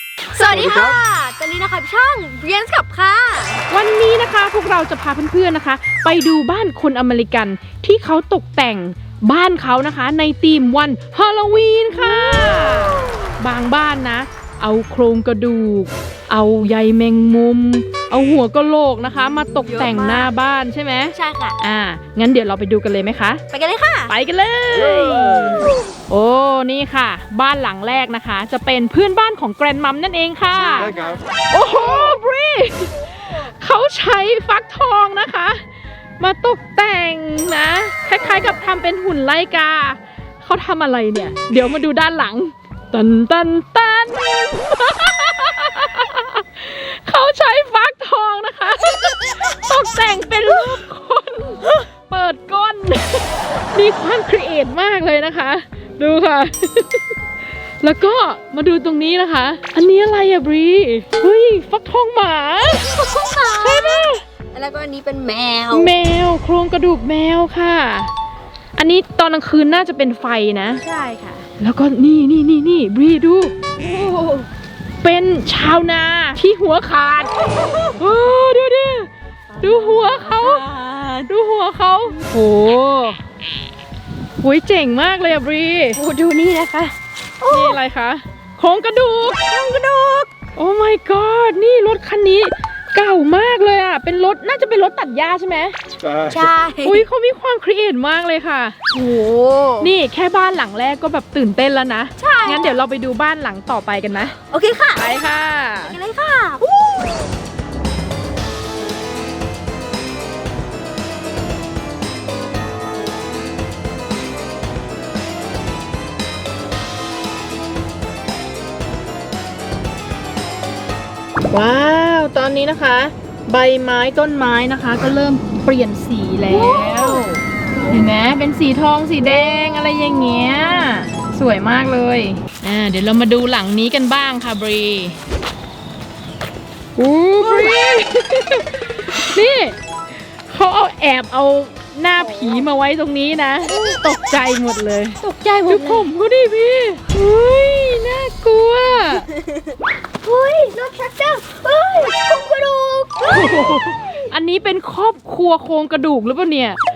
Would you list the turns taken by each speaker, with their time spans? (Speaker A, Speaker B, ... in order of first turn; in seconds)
Speaker A: 0.3-3.6, 12.1-13.1, 19.5-20.3, 21.1-21.6, 23.5-24.1, 30.5-31.2, 62.8-65.9, 70.8-71.5, 73.8-74.5, 77.5-78.0, 79.5-81.3, 85.9-87.8, 89.4-90.3, 96.3-97.0, 98.9-99.9, 102.2-102.8, 104.5-105.0, 105.8-107.3, 126.5-127.4, 137.4-137.9, 142.2-142.7, 143.7-144.0, 145.2-146.1, 149.5-153.8
Speaker B: 0.4-1.0, 24.8-25.7, 30.8-31.2, 96.0-96.5
Speaker C: 3.7-23.4, 24.1-30.9, 31.5-35.6, 36.2-57.1, 57.8-62.9, 63.6-64.2, 65.7-68.1, 68.8-70.8, 71.6-73.5, 75.0-77.3, 78.0-80.6, 81.2-83.2, 84.4-86.0, 87.5-89.4, 90.5-95.8, 96.8-98.8, 99.8-104.3, 105.0-106.0, 121.5-127.3, 127.8-135.2, 136.9-139.8, 140.5-149.3, 153.3-156.8